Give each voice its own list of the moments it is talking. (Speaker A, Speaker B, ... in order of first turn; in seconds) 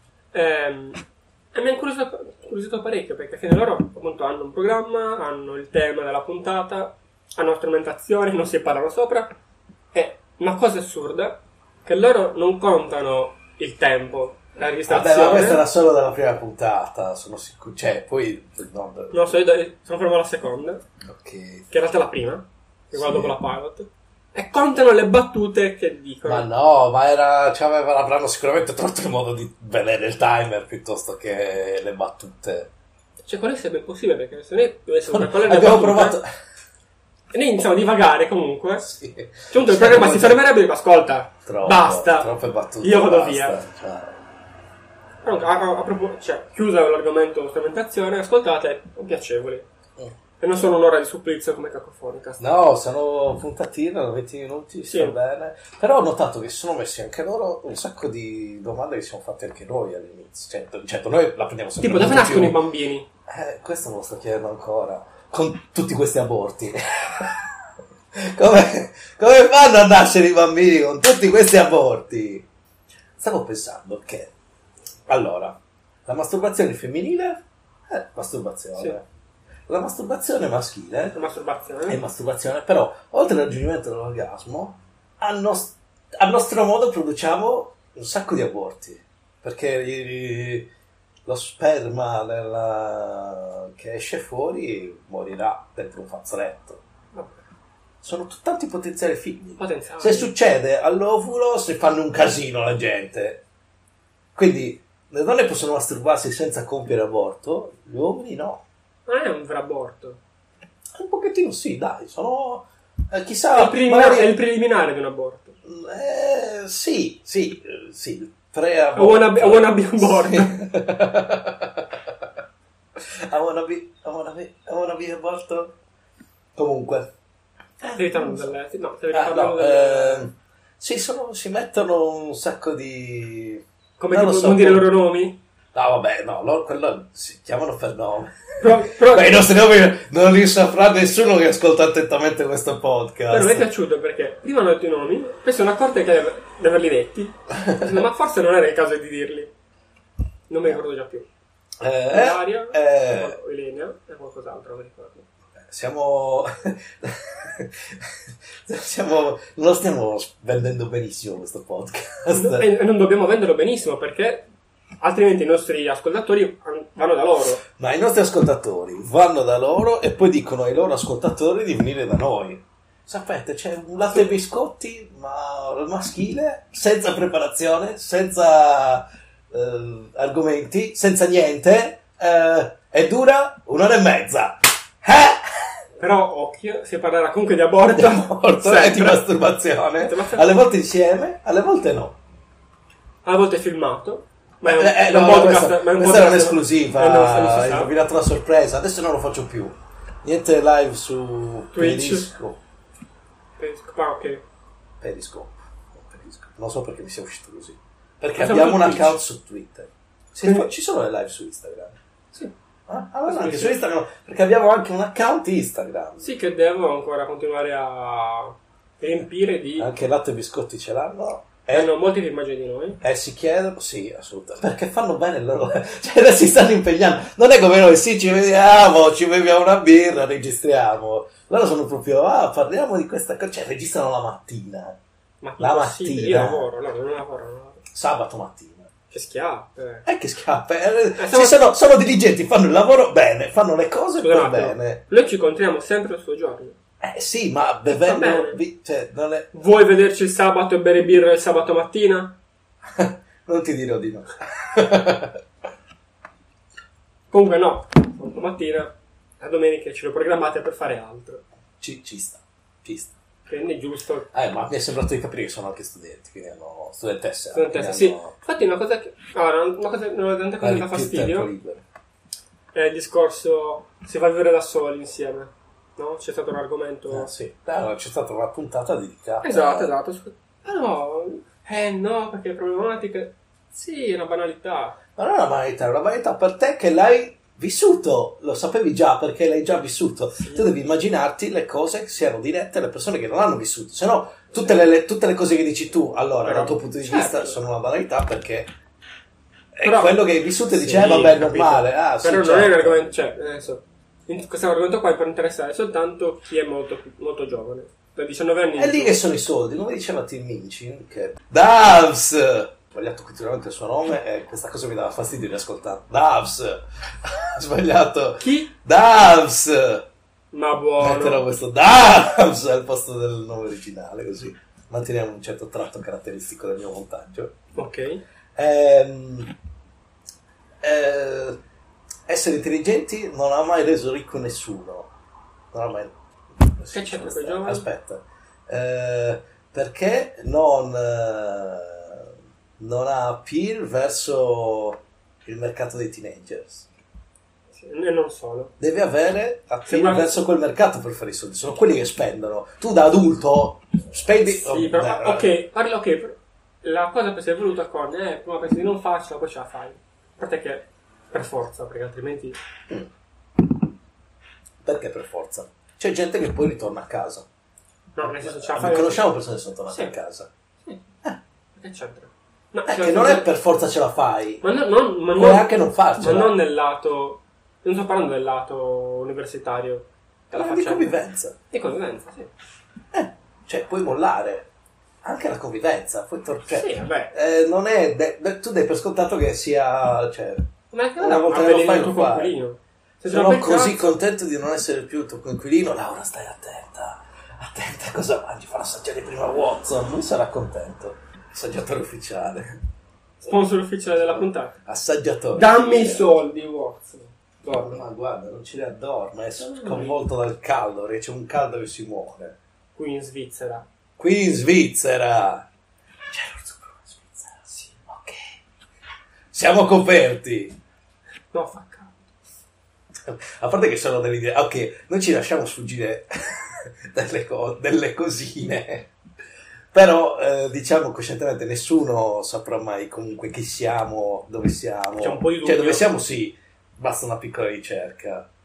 Speaker A: 0.3-1.0, 1.5-9.3, 9.9-15.6, 19.1-20.8, 21.7-26.5, 33.2-36.2, 37.3-38.9, 39.5-43.6, 45.2-49.6, 50.4-52.4, 54.8-55.2, 61.8-63.1, 81.1-82.0, 97.1-97.4, 99.6-100.3, 109.1-110.2, 113.5-115.5, 118.9-120.5, 128.0-130.3, 134.0-135.4, 138.6-139.4, 143.3-149.5, 150.5-151.3, 152.1-155.2, 162.3-164.5, 165.0-167.6, 186.0-189.2, 190.0-190.5, 193.2-197.9, 201.7-202.3, 203.6-204.4, 208.3-209.2, 210.4-210.7, 213.2-213.8, 216.2-219.9, 221.7-223.0, 235.4-237.8, 239.1-240.0, 241.2-241.7, 244.2-246.8, 247.8-248.6, 249.5-252.4, 257.3-261.4, 263.5-264.3, 267.5-271.5, 272.7-277.3, 279.4-285.0, 290.4-290.7, 296.4-297.6, 299.8-300.2, 300.7-309.2, 318.4-318.7, 320.5-321.4, 327.8-328.2, 336.9-337.9, 347.7-348.7, 349.9-350.3, 354.4-362.6, 368.1-369.3, 369.9-370.1, 371.8-373.5, 374.6-381.2, 381.7-382.5, 386.7-387.3, 390.9-394.1, 403.4-404.7, 405.5-408.0, 409.6-410.2, 412.9-413.8, 417.7-418.0, 421.5-422.3, 435.2-436.1
Speaker B: 14.9-19.3, 21.1-21.6, 22.9-23.4, 26.2-32.7, 35.1-36.3, 38.8-40.4, 41.5-44.2, 52.4-62.6, 63.3-67.5, 68.1-72.5, 73.2-74.3, 75.1-79.0, 79.7-81.3, 81.9-90.7, 91.2-96.8, 98.0-103.4, 104.3-108.6, 111.0-114.3, 115.6-122.3, 123.0-125.8, 126.5-127.1, 127.8-128.5, 129.1-134.9, 135.7-143.7, 147.6-148.1, 151.8-153.4, 155.6-158.1, 158.6-162.7, 167.8-185.7, 187.9-192.2, 194.6-202.6, 205.0-212.0, 212.9-216.3, 219.8-221.9, 223.0-235.0, 235.6-236.7, 237.9-238.9, 240.0-245.0, 247.0-249.5, 252.9-255.4, 261.8-263.1, 264.3-268.3, 270.6-271.8, 277.1-279.9, 285.1-298.7, 299.7-303.0, 308.8-320.1, 321.0-327.6, 328.6-329.5, 330.8-331.6, 332.3-335.1, 335.7-346.9, 348.8-355.5, 364.8-367.5, 368.2-370.5, 372.9-374.6, 375.3-376.6, 380.5-381.6, 383.1-384.7, 385.2-392.5, 393.3-402.8, 404.2-406.2, 407.7-412.6, 414.2-415.7, 416.3-418.6, 419.5-420.8, 423.2-429.1, 429.9-438.5